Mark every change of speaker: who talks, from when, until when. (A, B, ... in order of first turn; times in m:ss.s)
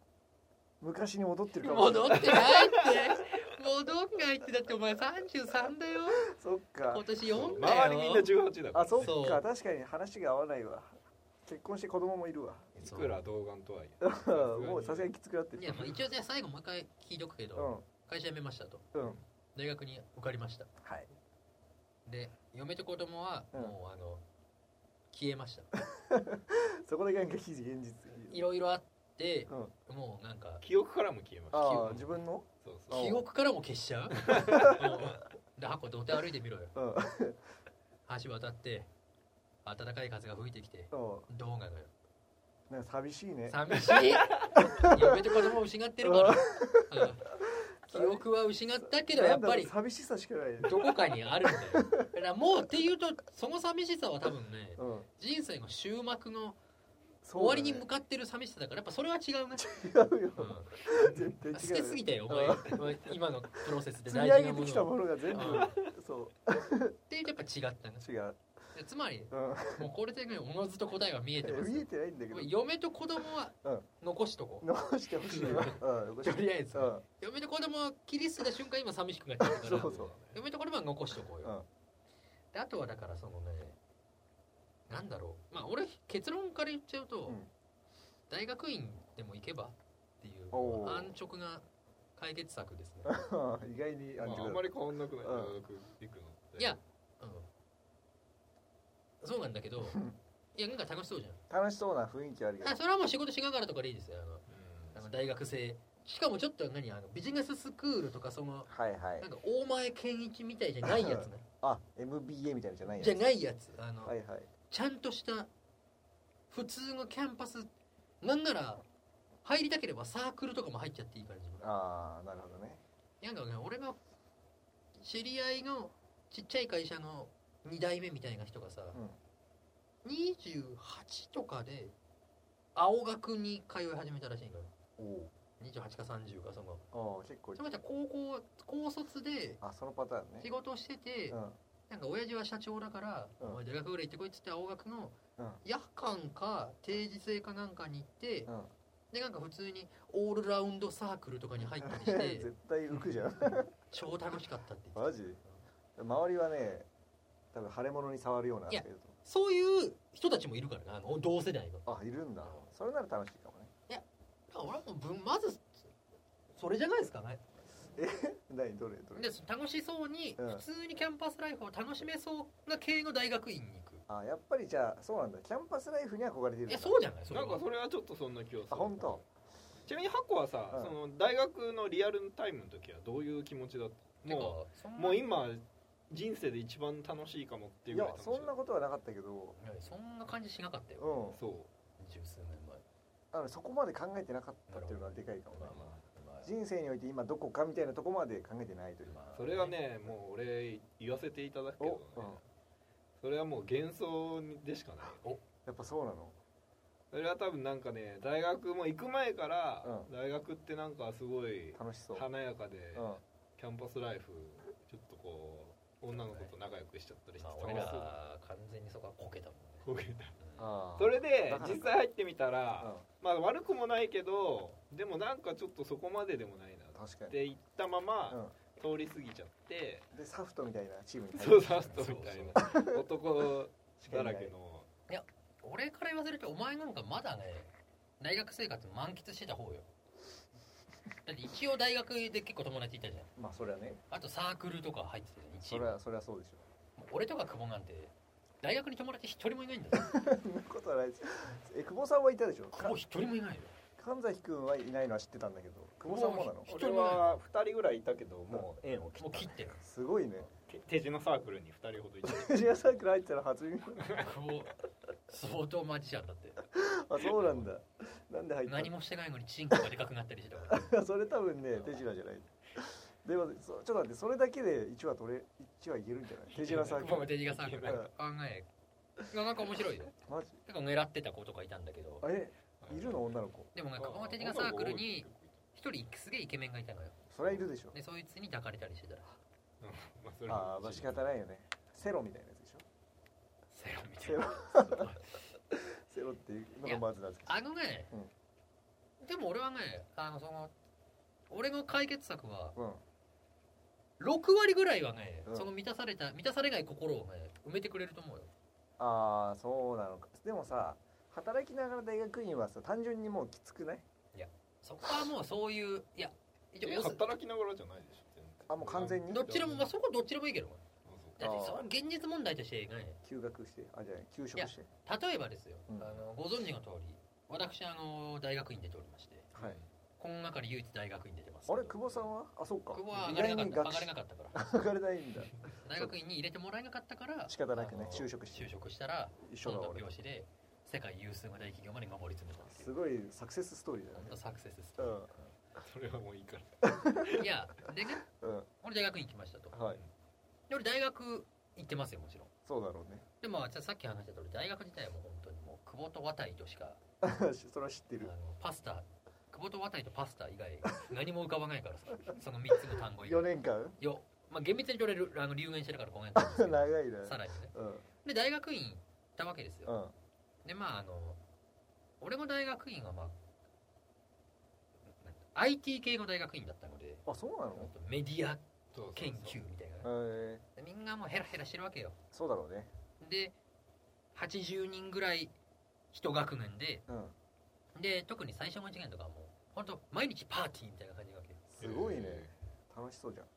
0:00.8-0:02.5 A
0:01.6-0:06.3 B
0:02.2-0:02.9 C
0:06.2-0:07.8 A
0:06.9-0:08.3 B
0:07.3-0:09.1 C
0:08.7-0:12.7 A
0:09.0-0:09.4 B
0:12.8-0:13.2 B
0:12.8-0:15.1 C
0:14.0-0:16.0 A
0:15.6-0:18.9 B
0:17.6-0:17.8 A
0:19.5-0:20.7 B
0:20.8-0:21.1 A
0:22.0-0:24.2 B
0:25.1-0:25.7 B
0:25.9-0:28.4 A
0:28.3-0:30.6 B
0:30.6-0:31.9 C
0:31.5-0:33.2 A
0:31.5-0:32.2 B
0:32.6-0:33.1 C
0:32.9-0:36.7 B
0:34.3-0:34.7 C
0:36.7-0:37.4 A
0:38.0-0:38.9 B
0:39.6-0:41.9 B
0:40.9-0:41.3 A
0:42.7-0:43.6 A
0:43.5-0:47.3 B
0:44.6-0:45.4 A
0:46.0-0:48.2 A
0:47.9-0:49.7 B
0:49.0-0:52.1 A
0:50.6-0:56.6 B
0:54.8-0:55.1 A
0:57.2-0:57.9 A
0:57.3-0:59.7 B
0:59.6-1:02.8 A
1:00.4-1:00.9 B
1:01.5-1:05.7 B
1:04.0-1:07.0 A
1:05.4-1:05.8 C
1:07.1-1:08.1 B
1:08.0-1:08.4 A
1:08.7-1:14.7 B
1:09.3-1:09.9 A
1:11.4-1:12.5 A
1:14.6-1:17.0 A
1:15.3-1:21.5 B
1:19.4-1:20.1 A
1:19.6-1:20.4 C
1:22.5-1:23.8 B
1:24.9-1:27.4 B
1:28.3-1:31.6 B
1:30.5-1:31.1 A
1:32.2-1:33.2 B
1:33.0-1:35.6 A
1:34.2-1:36.8 C
1:36.6-1:37.5 B
1:39.2-1:40.0 B
1:39.8-1:40.1 A
1:40.6-1:41.4 B
1:41.5-1:42.8 A
1:42.6-1:51.4 B
1:44.5-1:45.1 C
1:48.7-1:49.3 A
1:50.8-1:53.2 A
1:52.9-1:54.1 B
1:54.0-1:54.5 A
1:54.7-1:55.5 B
1:56.5-1:57.7 B
1:58.2-1:58.8 B
1:59.4-2:01.6 B
2:01.6-2:02.8 A
2:03.2-2:04.0 B
2:05.0-2:09.0 B
2:10.0-2:11.9 B
2:12.7-2:14.7 B
2:15.0-2:15.3 A
2:15.6-2:16.8 B
2:16.9-2:17.7 A
2:17.6-2:19.6 B
2:19.6-2:20.5 A
2:20.4-2:28.5 B
2:21.3-2:21.6 A
2:29.1-2:32.5 B
2:31.8-2:33.7 A
2:33.8-2:35.2 B
2:35.0-2:35.4 A
2:36.0-2:36.9 A
2:37.5-2:39.2 A
2:38.7-2:41.8 B
2:41.8-2:43.7 A
2:42.4-2:42.7 B
2:43.9-2:45.9 B
2:46.5-2:47.4 B
2:48.0-2:49.3 A
2:49.1-2:54.0 B
2:50.4-2:50.6 A
2:54.1-2:57.0 A
2:56.7-2:57.6 B
2:57.3-2:59.2 C
2:58.7-2:59.2 A
2:59.9-3:08.5 C
3:04.2-3:05.2 B
3:07.9-3:09.6 A
3:09.6-3:11.4 B
3:11.0-3:11.4 A
3:11.3-3:11.7 C
3:12.0-3:12.8 B
3:13.3-3:19.2 A
3:14.7-3:16.5 B
3:19.0-3:19.8 B
3:19.3-3:22.4 C
3:21.8-3:22.4 A
3:23.2-3:25.2 C
3:25.6-3:26.4 A
3:27.1-3:38.1 C
3:29.8-3:30.1 A
3:31.8-3:32.3 A
3:32.9-3:33.2 A
3:37.4-3:39.8 B
3:37.7-3:37.9 A
3:39.8-3:40.4 C
3:40.6-3:42.0 A
3:41.0-3:50.1 C
3:42.8-3:43.0 A
3:47.0-3:47.3 A
3:50.1-3:53.0 A
3:51.3-3:54.9 C
3:51.9-3:52.7 B
3:54.1-3:54.5 A
3:55.1-3:59.9 B
4:01.2-4:03.3 B
4:03.4-4:04.0 A
4:04.1-4:06.0 B
4:05.6-4:06.6 A
4:07.0-4:10.1 B
4:10.0-4:13.0 A
4:12.7-4:13.8 B
4:14.0-4:16.7 A
4:16.1-4:17.4 B
4:16.7-4:19.6 C
4:19.2-4:19.8 B
4:19.7-4:20.5 A
4:20.6-4:22.7 C
4:22.2-4:24.2 A
4:24.0-4:24.3 C
4:24.2-4:26.6 B
4:26.7-4:28.9 A
4:27.4-4:27.7 C
4:28.6-4:30.9 B
4:30.7-4:37.3 A
4:31.7-4:32.0 B
4:36.5-4:38.1 C
4:36.7-4:38.7 B
4:39.3-4:40.1 B
4:40.2-4:40.6 A
4:40.6-4:42.3 B
4:42.2-4:43.7 A
4:42.8-4:43.3 C
4:43.7-4:49.2 B
4:44.0-4:45.6 C
4:47.3-4:48.0 A
4:49.8-4:51.2 C
4:50.5-4:52.8 A
4:53.7-4:55.4 B
4:54.2-4:55.1 A
4:55.7-4:58.3 A
4:56.8-4:58.1 B
4:59.2-5:00.7 B
5:01.5-5:02.8 B
5:02.8-5:03.0 A
5:04.2-5:08.5 B
5:09.0-5:14.0 A
5:14.3-5:17.3 B
5:16.8-5:19.9 C
5:18.7-5:19.5 A
5:19.3-5:20.8 B
5:21.0-5:21.5 C
5:21.4-5:23.2 B
5:21.4-5:21.8 A
5:23.2-5:24.9 A
5:24.6-5:29.5 B
5:25.9-5:26.2 A
5:29.6-5:29.8 C
5:30.2-5:32.0 B
5:31.7-5:36.1 A
5:32.9-5:34.7 B
5:35.8-5:42.9 B
5:37.5-5:38.7 A
5:39.4-5:40.1 A
5:42.6-5:44.4 A
5:44.1-5:45.2 B
5:45.0-5:45.3 A
5:45.8-5:47.5 C
5:46.8-5:47.4 A
5:47.3-5:48.2 B
5:48.3-5:48.7 A
5:48.8-5:49.8 B
5:49.7-5:50.0 A
5:50.7-5:52.5 B
5:52.6-5:53.2 A
5:53.4-5:57.0 B
5:57.2-5:58.3 A
5:58.2-6:07.7 B
6:02.7-6:04.0 A
6:06.4-6:08.0 A
6:08.2-6:09.9 B
6:09.8-6:10.1 A
6:10.6-6:11.4 B
6:12.2-6:13.4 B
6:15.2-6:17.2 B
6:17.3-6:17.9 A
6:17.8-6:18.6 B
6:18.9-6:19.6 C
6:19.1-6:20.1 B
6:20.0-6:20.6 A
6:20.8-6:22.2 B
6:22.3-6:22.9 A
6:23.2-6:23.5 B
6:24.3-6:25.5 B
6:26.1-6:27.0 B
6:27.1-6:27.3 A
6:27.9-6:31.6 B
6:31.7-6:33.5 A
6:31.8-6:32.5 C